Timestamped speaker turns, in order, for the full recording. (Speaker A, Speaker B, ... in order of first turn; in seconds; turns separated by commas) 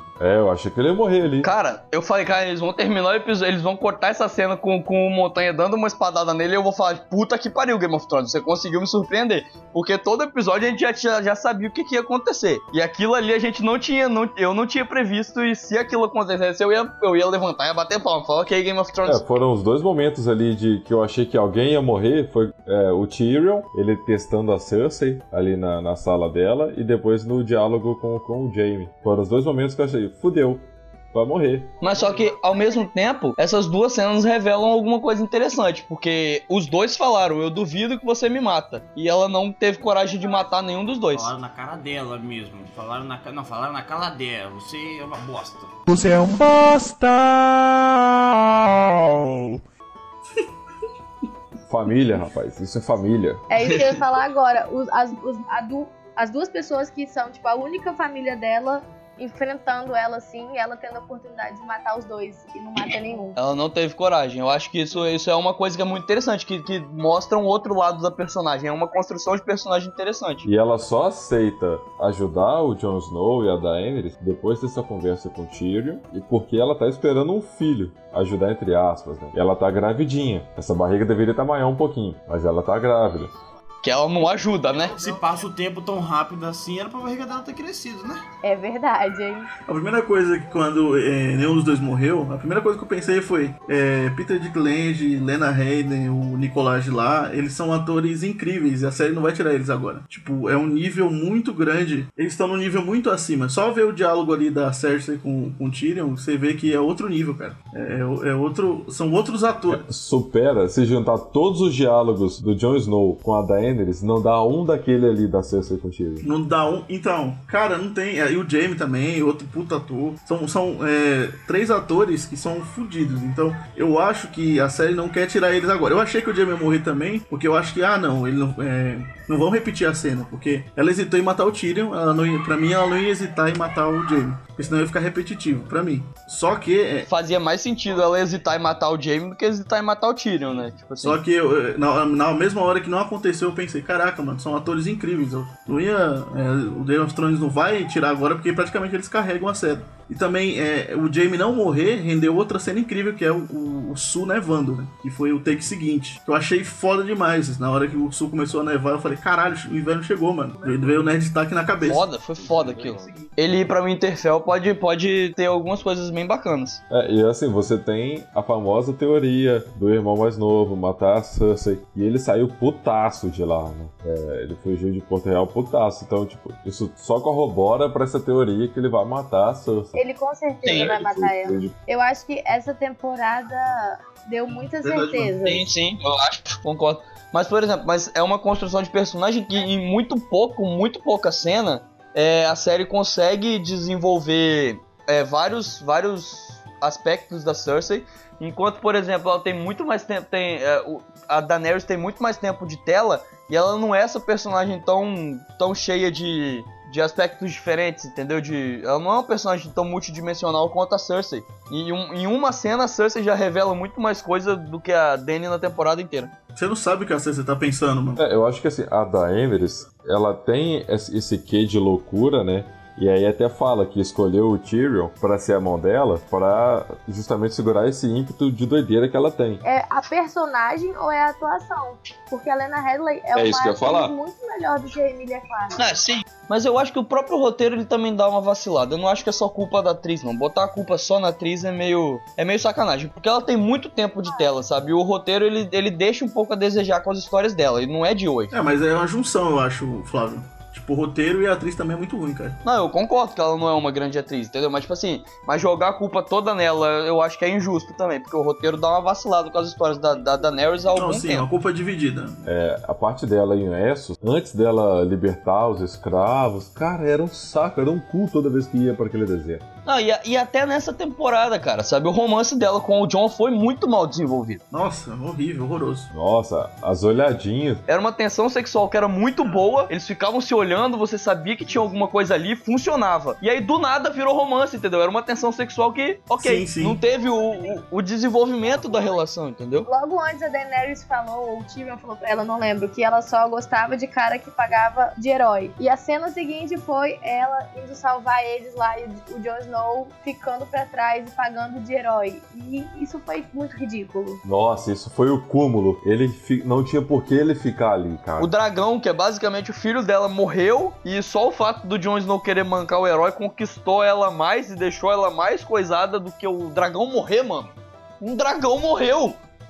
Speaker A: 0.2-1.5, Speaker B: 1.4-19.2, Speaker A: 19.1-31.7, Speaker B: 31.8-41.3, Speaker C: 41.1-45.7, Speaker D: 45.9-49.6, Speaker A: 51.7-53.4, Speaker E: 53.5-63.4, Speaker B: 63.4-70.5, Speaker A: 70.5-83.3, Speaker B: 83.8-84.9, Speaker C: 84.9-88.2, Speaker E: 88.4-89.5, Speaker F: 89.7-109.8, Speaker A: 109.7-116.3, Speaker F: 116.2-137.1, Speaker B: 137.1-141.2, Speaker F: 141.0-162.1, Speaker B: 161.8-166.8, Speaker A: 166.9-180.0, Speaker E: 180.0-185.7, Speaker B: 180.7-180.9, Speaker A: 180.7-181.7, Speaker F: 184.8-185.3, Speaker B: 185.4-216.3, Speaker F: 216.6-218.2, Speaker A: 218.2-229.6, Speaker E: 229.6-235.8, Speaker A: 233.3-234.1, Speaker B: 235.8-248.5, Speaker F: 248.5-252.6, Speaker B: 252.6-261.5, Speaker F: 260.9-262.4, Speaker A: 262.4-269.6, Speaker B: 269.9-274.6, Speaker F: 274.7-276.1, Speaker A: 276.1-277.8, Speaker B: 277.9-289.9, Speaker F: 286.4-287.0, Speaker E: 289.9-304.4, Speaker A: 304.4-308.5, Speaker B: 308.4-319.4